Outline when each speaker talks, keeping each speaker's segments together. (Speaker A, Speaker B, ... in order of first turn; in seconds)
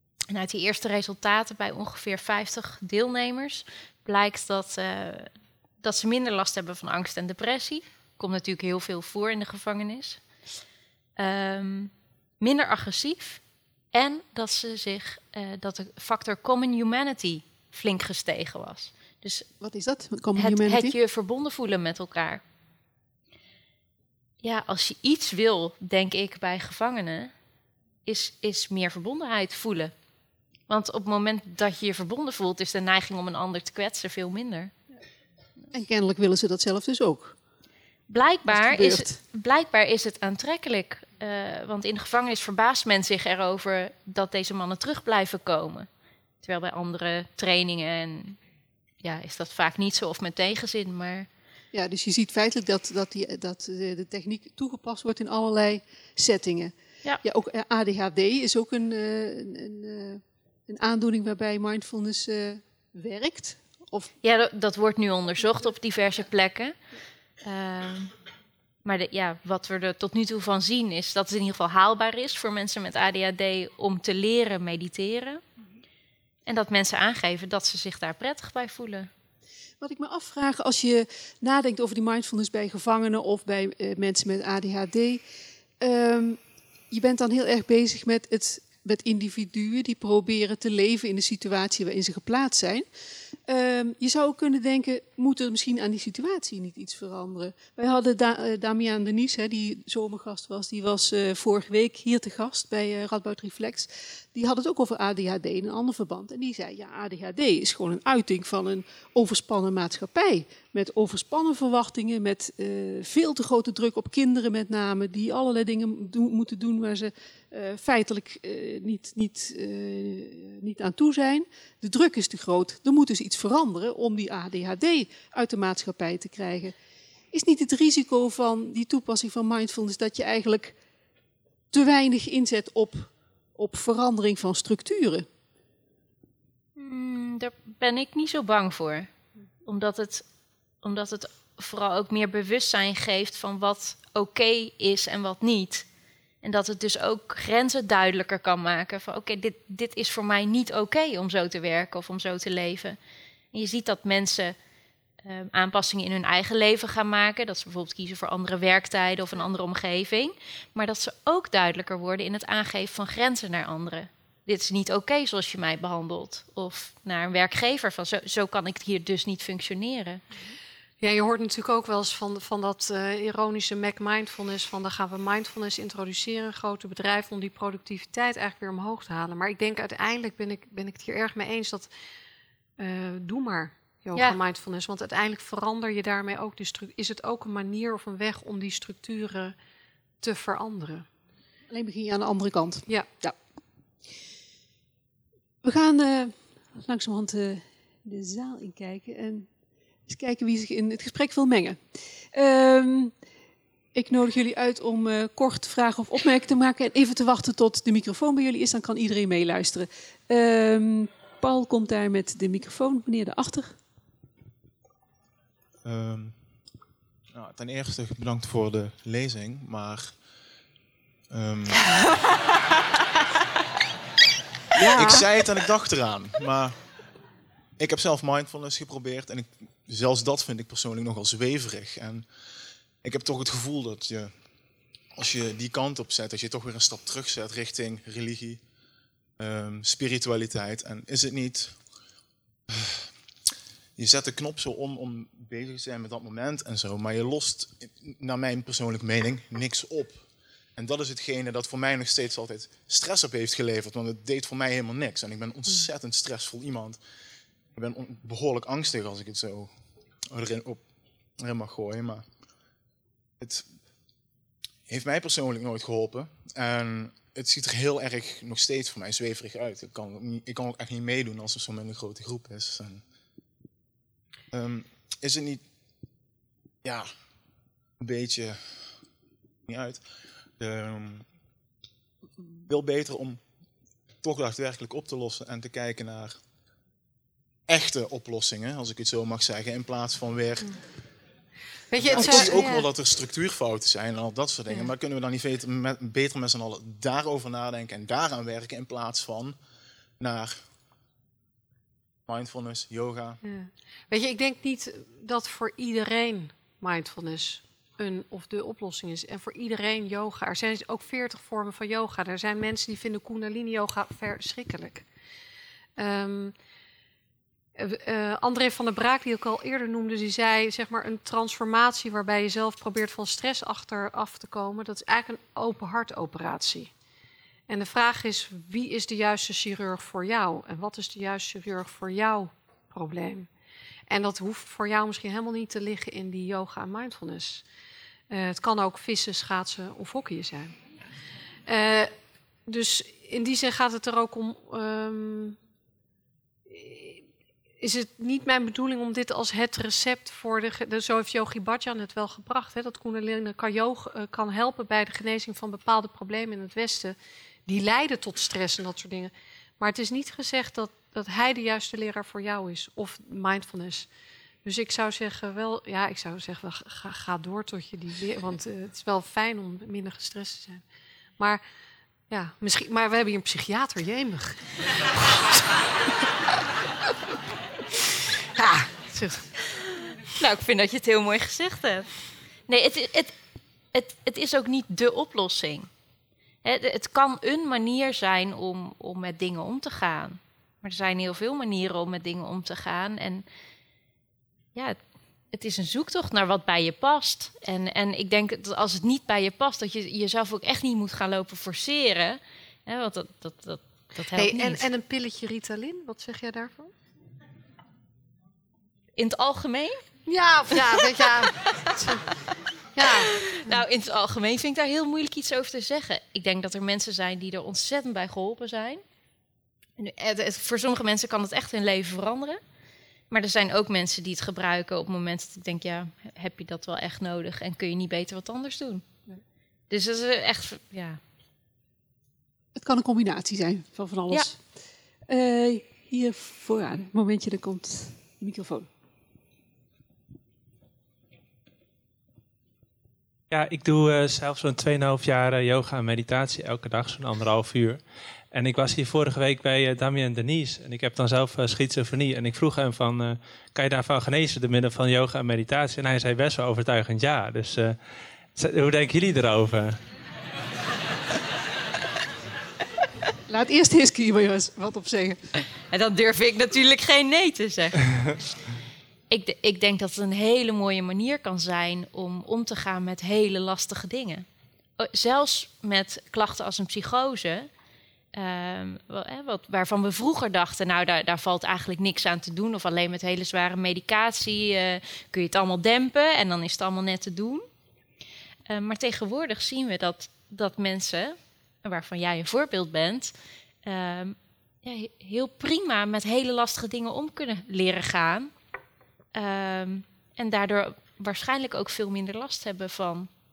Speaker A: 0.3-10.2, 11.2-13.4, 13.9-19.5, 20.4-22.4, 24.4-27.3, 28.1-29.9, 30.7-34.7, 38.1-45.9, 46.4-48.4, 49.0-51.3, 64.2-66.7, 67.4-68.1, 68.8-75.4, 76.5-79.1, 136.8-139.1, 139.7-140.2, 140.8-145.8, 146.4-153.0, 153.5-154.6, 155.2-170.2, 380.4-382.1, 382.7-383.3, 383.9-385.9, 386.6-393.4, 395.5-404.8, 409.2-410.0, 413.2-419.0, 420.0-422.6, 423.3-429.0, 429.9-431.2, 465.9-468.5, 469.3-474.4, 475.0-477.7, 478.3-487.6, 488.7-493.3, 493.8-498.5, 499.3-503.3
Speaker B: 19.6-20.9, 35.7-37.4, 38.5-39.1, 51.7-64.1, 79.8-85.2, 85.8-86.4, 86.9-92.9, 93.5-126.7, 127.3-130.8, 131.7-135.3, 191.7-193.3, 195.6-199.5, 200.1-201.8, 202.3-203.1, 203.9-213.8, 224.8-225.2, 292.1-292.6, 432.8-434.6, 435.3-438.9, 463.5-465.4
Speaker C: 171.0-181.9, 182.8-189.6, 190.2-191.1, 291.9-292.9, 303.4-315.1, 316.0-316.5, 317.8-326.9, 327.7-333.5, 334.1-337.6, 338.3-340.7, 341.7-342.1, 342.6-345.6, 346.7-347.2, 347.8-364.1, 364.6-370.8, 371.4-371.6, 372.3-374.6, 375.1-375.7, 378.5-379.5, 404.3-406.9, 410.2-412.2, 412.9-413.8
Speaker D: 215.8-216.4, 217.3-220.2, 221.3-221.8, 224.9-226.8, 227.8-232.3, 233.0-234.3, 235.2-238.6, 239.4-241.8, 242.7-242.9, 244.0-250.2, 250.8-257.0, 257.7-259.7, 260.3-260.8, 261.4-262.2, 263.4-263.6, 264.9-273.0, 274.5-275.6, 276.8-277.1, 278.0-279.0, 279.7-280.0, 280.6-281.2, 282.6-283.4, 284.2-286.4, 287.7-290.8, 292.0-299.6, 300.2-300.6, 302.3-303.4
Speaker E: 443.5-458.0, 458.5-460.0